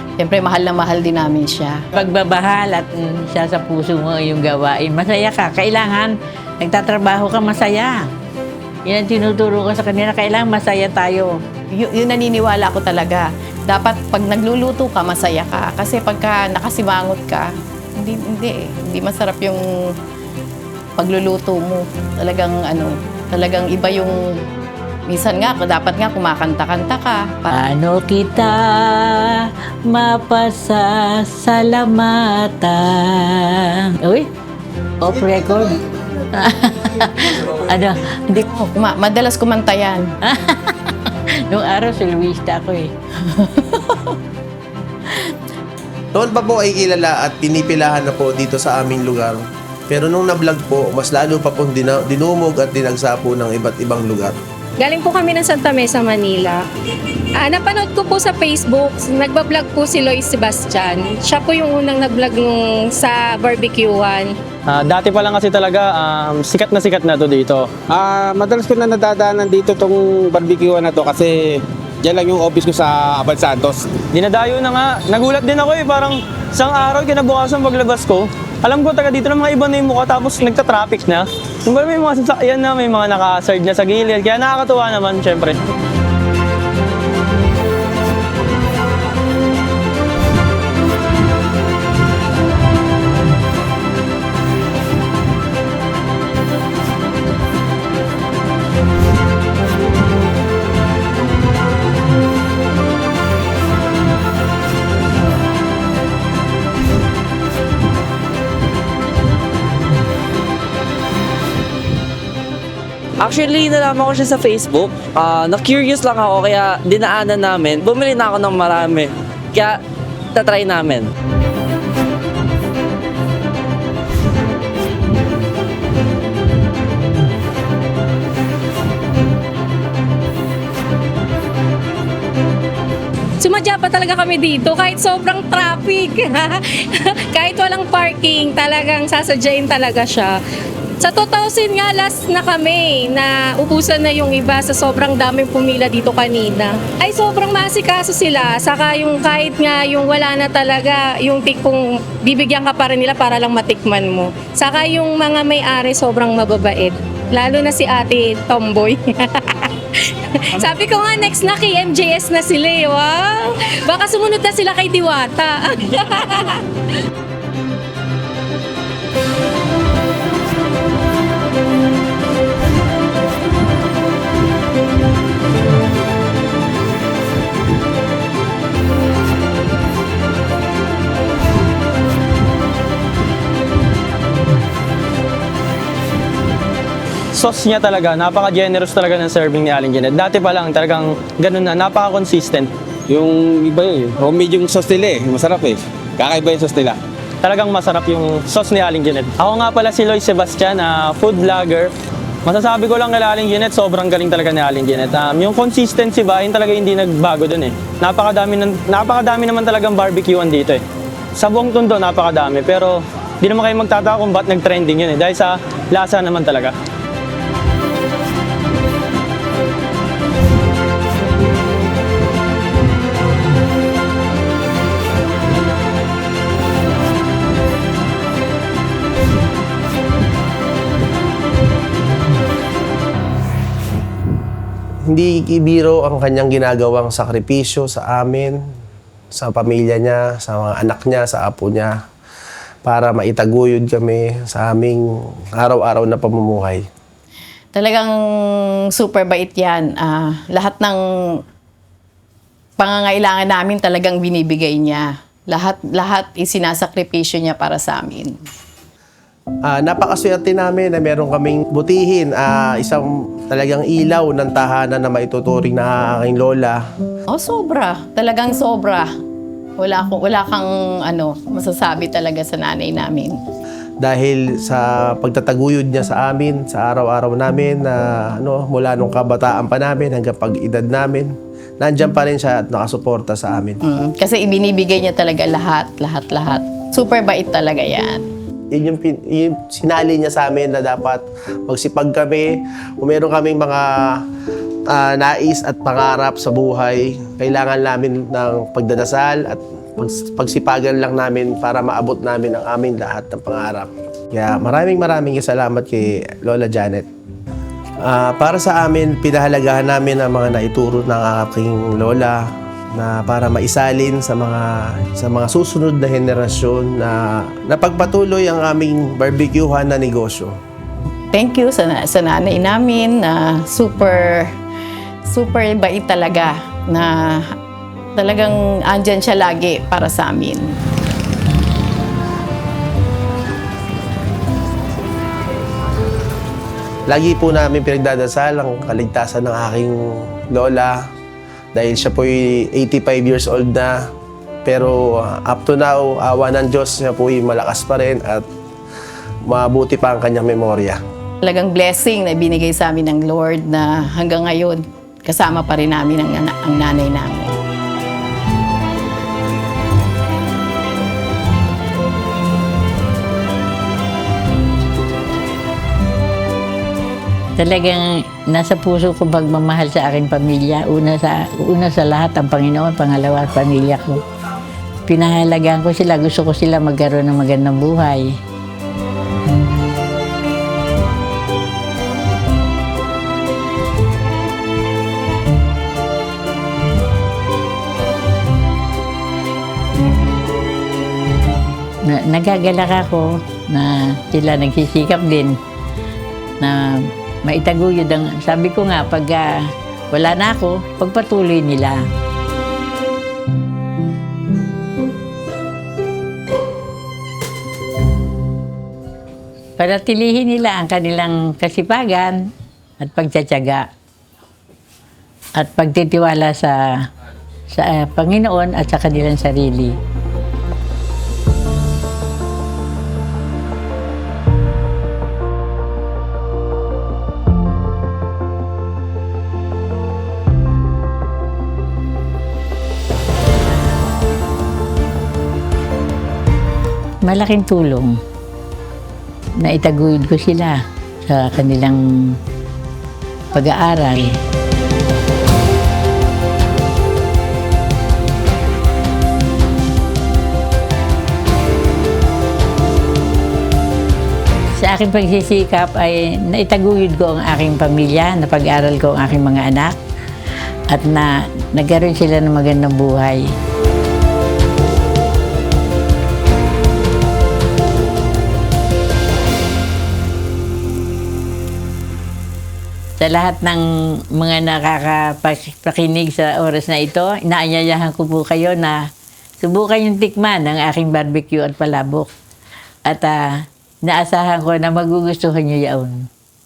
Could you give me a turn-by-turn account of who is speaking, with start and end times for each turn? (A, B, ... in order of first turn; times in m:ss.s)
0:00.2-0:01.8 A
0:01.9-0:08.1 B
0:08.8-0:11.4 B
0:11.7-0:19.6 A
0:21.0-0:24.2 A
0:25.1-0:27.5 A
0:27.5-0:34.3 B
0:35.0-0:35.8 B
0:36.3-0:38.5 B
0:38.5-0:40.1 A
0:40.2-0:42.9 B
0:43.4-0:43.6 A
0:46.1-0:54.4 C
0:54.8-0:56.6 D
0:57.4-1:04.3 D
1:04.7-1:07.7 E
1:07.9-1:13.9 F
1:14.1-1:25.6 E
1:53.2-1:59.8 G
2:00.3-2:01.1 G
2:13.4-2:20.4 D
2:21.0-2:46.6 D
3:07.3-3:12.7 E
3:13.1-3:17.0 F
3:17.4-3:21.9 E
3:22.4-3:30.8 E
3:31.4-3:36.7 E
3:55.0-3:58.6 C
3:59.3-4:01.9 C
4:02.8-4:06.8 C
4:07.7-4:11.4 A
4:12.8-4:18.4 A
4:19.6-4:26.8 C
4:27.3-4:29.1 A
4:29.8-4:33.4 A
4:34.0-4:43.8 C
4:43.8-4:48.2 A
4:48.7-4:54.2 C
4:54.9-5:07.1 C
5:08.0-5:20.5 C
5:21.3-5:24.5 A
5:25.3-5:27.4 A
5:28.2-5:30.7 A
5:37.1-5:41.0 C
5:41.7-5:44.0 C
5:44.6-5:48.4 C
5:49.5-5:51.0 C
5:51.4-5:57.5 A
6:07.6-6:14.2 B
6:15.0-6:18.3 B
6:32.0-6:35.6 B
6:36.6-6:42.0 B
6:49.8-6:53.9 B
6:55.6-6:57.1 B
6:57.7-7:00.0 B
7:17.2-7:18.2 B
7:19.6-7:22.4 B
7:23.5-7:24.4 B
7:34.8-7:40.0 B
7:40.9-7:43.5 B
7:53.2-7:59.0 B
7:59.6-8:02.3 B
8:03.0-8:03.5 B
8:04.0-8:06.3 B